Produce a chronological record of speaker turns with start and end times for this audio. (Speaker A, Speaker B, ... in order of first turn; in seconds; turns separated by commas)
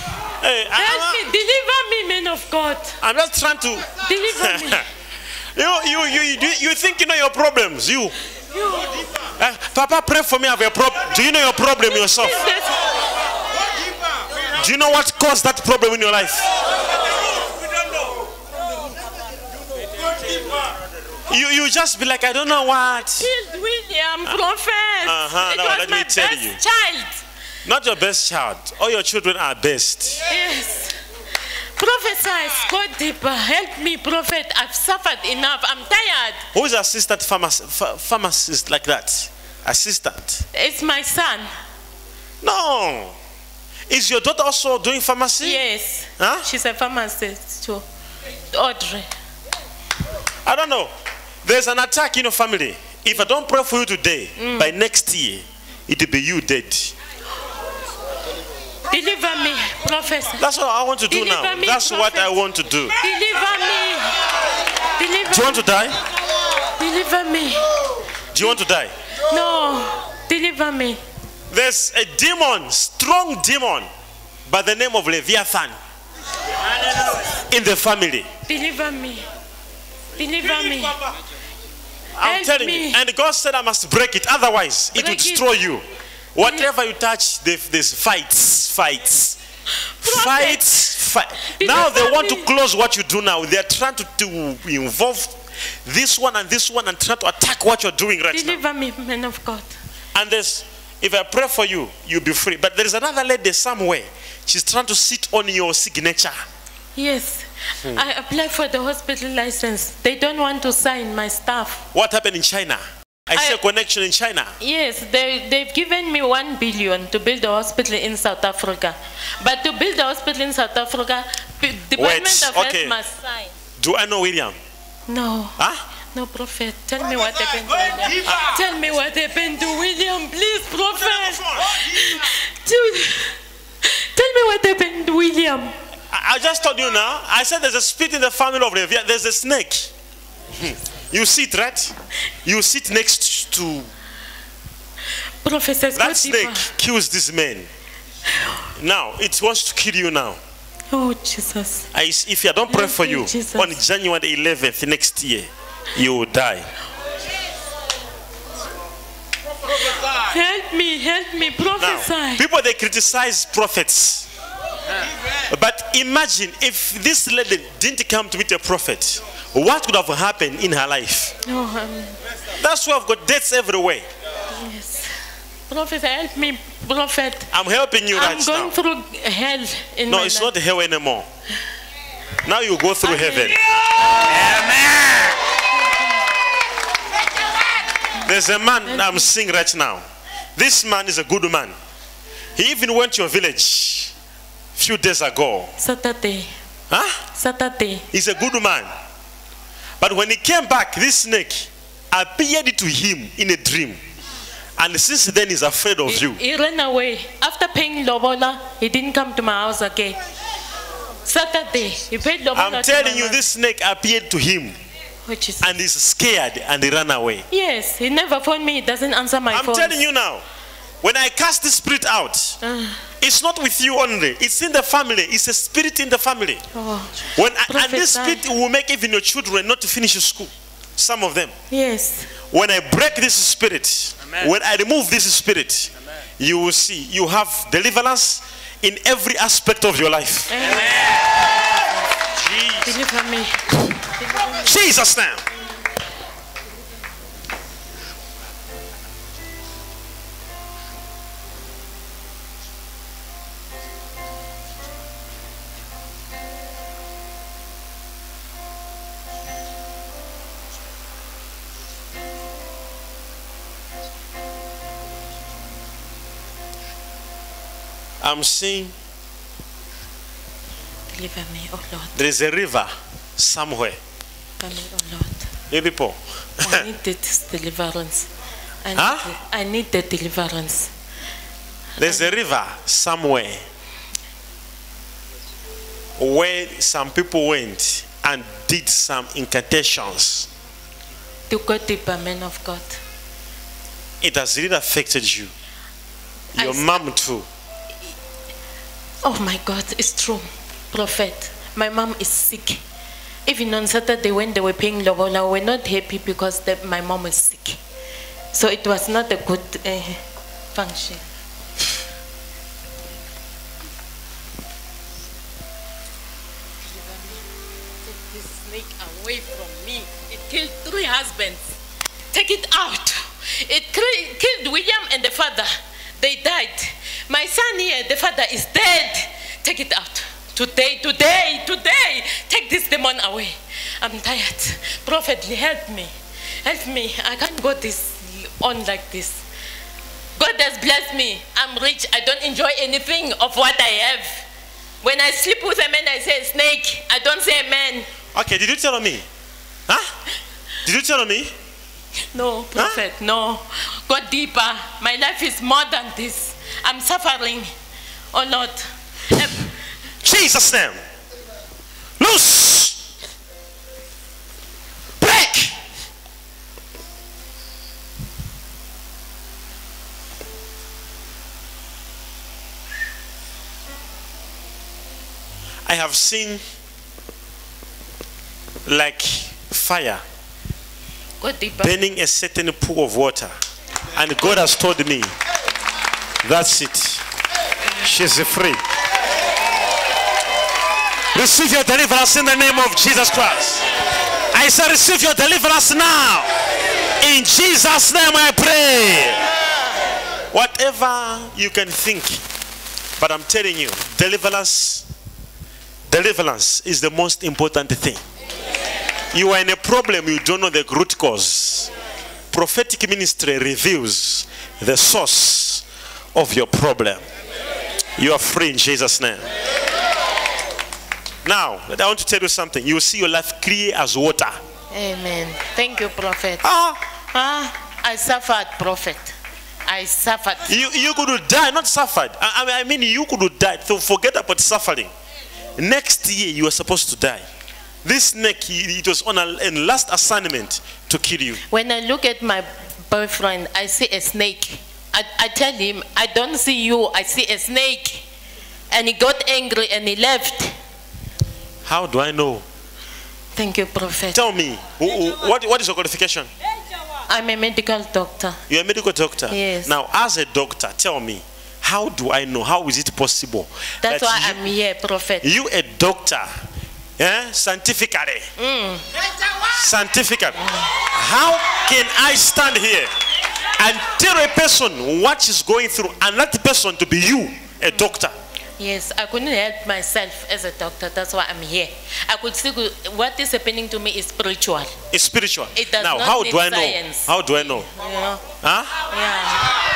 Speaker A: 0.4-1.2, Speaker B: 0.7-3.0, Speaker A: 3.0-4.8, Speaker B: 4.0-4.8, Speaker A: 5.6-8.1, Speaker B: 8.5-8.9, Speaker A: 9.4-12.4, Speaker B: 11.9-12.8, Speaker A: 14.6-16.5, Speaker A: 21.3-23.3, Speaker B: 23.2-27.2, Speaker A: 25.0-26.6, Speaker A: 27.6-30.2, Speaker B: 30.3-31.0, Speaker B: 31.8-36.4, Speaker A: 36.5-40.4, Speaker B: 40.5-41.5, Speaker A: 42.4-43.2, Speaker A: 43.9-45.6, Speaker B: 45.4-47.8, Speaker A: 46.2-46.5, Speaker B: 48.5-49.1, Speaker A: 50.5-50.9, Speaker A: 51.4-56.9, Speaker B: 54.4-54.8, Speaker B: 58.9-60.4, Speaker A: 60.4-63.0, Speaker B: 61.1-62.4, Speaker B: 63.0-64.2, Speaker B: 65.0-65.7, Speaker A: 65.3-66.0, Speaker B: 66.8-67.7, Speaker A: 68.3-68.9, Speaker B: 69.2-71.0, Speaker A: 71.5-73.9, Speaker A: 74.5-75.8, Speaker A: 77.5-78.3, Speaker B: 78.5-79.2, Speaker B: 80.2-81.0, Speaker A: 82.2-85.8, Speaker B: 82.2-83.0, Speaker B: 84.9-85.5, Speaker A: 86.4-89.4, Speaker B: 86.4-86.7, Speaker B: 90.0-92.5, Speaker A: 90.0-98.6, Speaker B: 98.3-99.7, Speaker A: 100.1-106.4, Speaker B: 107.0-111.8, Speaker A: 111.9-114.5, Speaker B: 113.3-113.6, Speaker B: 114.6-123.5, Speaker A: 122.0-123.0, Speaker A: 123.8-124.6, Speaker B: 125.1-125.6, Speaker B: 126.1-135.7, Speaker A: 130.9-131.8, Speaker A: 136.1-139.9, Speaker A: 140.6-143.9, Speaker B: 145.4-146.7, Speaker A: 145.9-147.7, Speaker A: 148.8-150.4, Speaker B: 150.9-151.9, Speaker A: 151.9-156.7, Speaker B: 152.7-153.8, Speaker B: 160.1-162.4, Speaker A: 161.8-164.3, Speaker A: 165.5-171.3, Speaker B: 171.4-172.2, Speaker A: 172.6-174.1, Speaker B: 174.5-175.1, Speaker B: 175.7-177.5, Speaker A: 177.5-178.8, Speaker B: 178.1-180.5, Speaker A: 180.1-181.3, Speaker A: 182.4-183.6, Speaker B: 183.0-183.6, Speaker A: 184.3-185.3, Speaker A: 188.2-190.1, Speaker B: 188.9-189.3, Speaker A: 190.6-191.8, Speaker A: 192.6-194.1, Speaker A: 194.8-195.7, Speaker B: 195.8-196.5, Speaker A: 196.9-197.2, Speaker B: 197.3-198.1, Speaker A: 198.1-198.9, Speaker A: 200.0-204.0, Speaker A: 204.8-206.4, Speaker B: 206.1-210.2, Speaker B: 211.2-213.4, Speaker A: 212.5-214.8, Speaker B: 215.2-215.7, Speaker A: 215.6-217.5, Speaker B: 217.5-220.0, Speaker A: 219.5-220.4, Speaker A: 221.0-222.6, Speaker B: 222.6-223.0, Speaker A: 223.2-226.6, Speaker B: 226.7-228.4, Speaker A: 227.3-231.5, Speaker B: 231.7-232.3, Speaker A: 232.5-240.6, Speaker B: 240.5-241.2, Speaker A: 242.5-242.8, Speaker B: 242.8-243.6, Speaker B: 244.2-244.7, Speaker A: 244.6-245.4, Speaker A: 268.2-268.9, Speaker B: 271.1-272.1, Speaker A: 272.1-274.0, Speaker B: 274.6-275.5, Speaker A: 275.7-276.9, Speaker B: 276.6-278.3, Speaker B: 278.8-280.9, Speaker A: 278.9-279.3, Speaker A: 282.0-283.6, Speaker B: 282.0-282.3, Speaker A: 286.2-290.5, Speaker B: 291.5-293.0, Speaker A: 294.2-295.5, Speaker B: 296.6-297.0, Speaker A: 296.6-297.5, Speaker B: 299.2-302.8, Speaker B: 303.5-307.8, Speaker B: 308.5-310.2, Speaker B: 310.8-311.2, Speaker B: 316.8-317.4, Speaker B: 318.1-321.7, Speaker B: 322.3-336.1, Speaker B: 336.6-339.4, Speaker B: 340.4-344.4, Speaker B: 345.0-348.1, Speaker A: 348.3-349.2, Speaker A: 350.9-351.5, Speaker B: 352.3-357.7, Speaker A: 352.8-353.0, Speaker B: 358.3-359.7, Speaker A: 360.2-361.0, Speaker A: 362.2-363.0, Speaker A: 365.2-365.8, Speaker A: 375.9-376.6, Speaker A: 378.9-380.2, Speaker B: 381.4-382.0, Speaker A: 381.8-383.5, Speaker A: 384.2-385.3, Speaker A: 386.4-387.2, Speaker A: 388.0-388.8, Speaker A: 391.3-393.9, Speaker A: 394.5-396.5, Speaker A: 397.2-399.4, Speaker A: 400.5-402.4, Speaker A: 403.2-405.1, Speaker A: 406.1-408.2, Speaker A: 409.3-411.9, Speaker A: 412.5-415.8, Speaker A: 416.4-417.2, Speaker A: 418.2-419.5, Speaker A: 421.4-424.6, Speaker B: 424.9-426.6, Speaker A: 426.6-427.0, Speaker B: 427.3-429.3, Speaker B: 429.9-430.7, Speaker A: 430.7-435.1, Speaker A: 435.8-437.4, Speaker A: 438.0-441.6, Speaker B: 441.7-448.2, Speaker B: 448.9-450.8, Speaker A: 451.9-452.6, Speaker B: 453.6-454.4, Speaker A: 454.3-456.5, Speaker B: 457.3-458.6, Speaker A: 458.7-464.7, Speaker B: 459.5-459.9, Speaker B: 464.0-465.5, Speaker A: 465.4-466.5, Speaker A: 467.2-468.5, Speaker B: 468.6-469.1, Speaker A: 469.7-470.6, Speaker A: 471.1-473.1, Speaker A: 473.8-478.4, Speaker B: 478.8-484.9, Speaker A: 485.1-487.9, Speaker B: 485.8-488.4, Speaker A: 488.6-489.0, Speaker B: 489.1-489.7